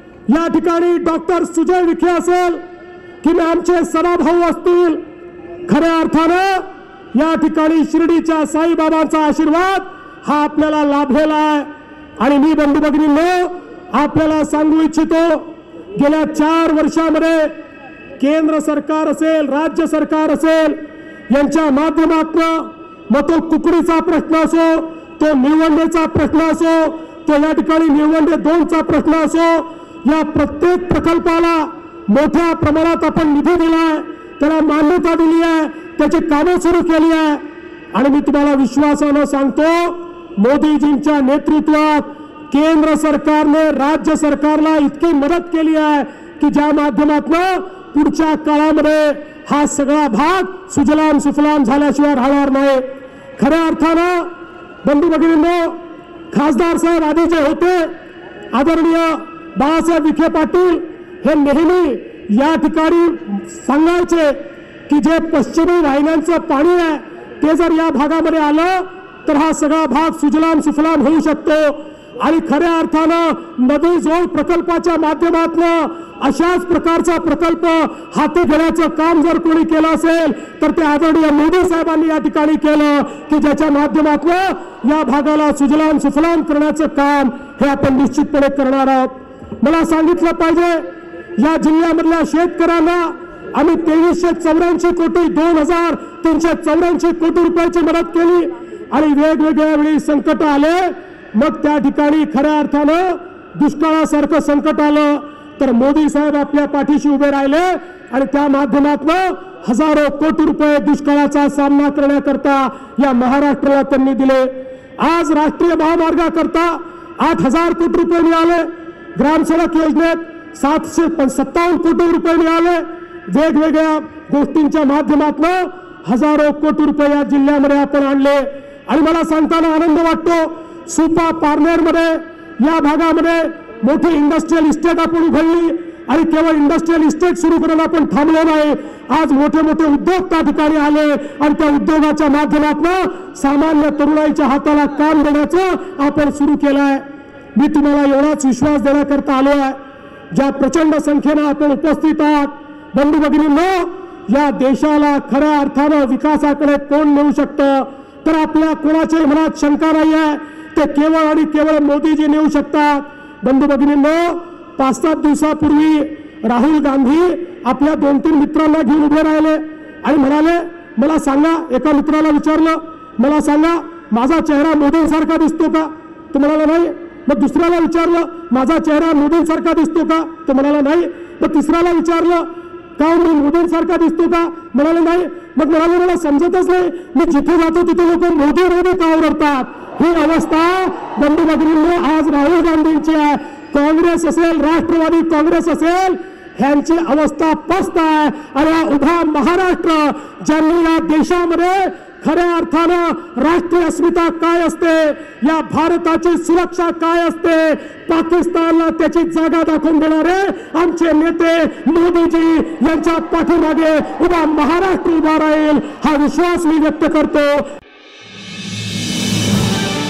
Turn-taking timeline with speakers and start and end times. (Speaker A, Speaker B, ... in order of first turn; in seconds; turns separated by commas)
Speaker A: 0.3-2.6, Speaker A: 3.2-5.0, Speaker A: 5.7-17.5, Speaker A: 18.2-37.4, Speaker A: 37.9-52.8, Speaker A: 53.4-54.3, Speaker A: 54.8-57.9, Speaker A: 58.5-147.0, Speaker A: 147.6-149.8, Speaker A: 150.3-217.7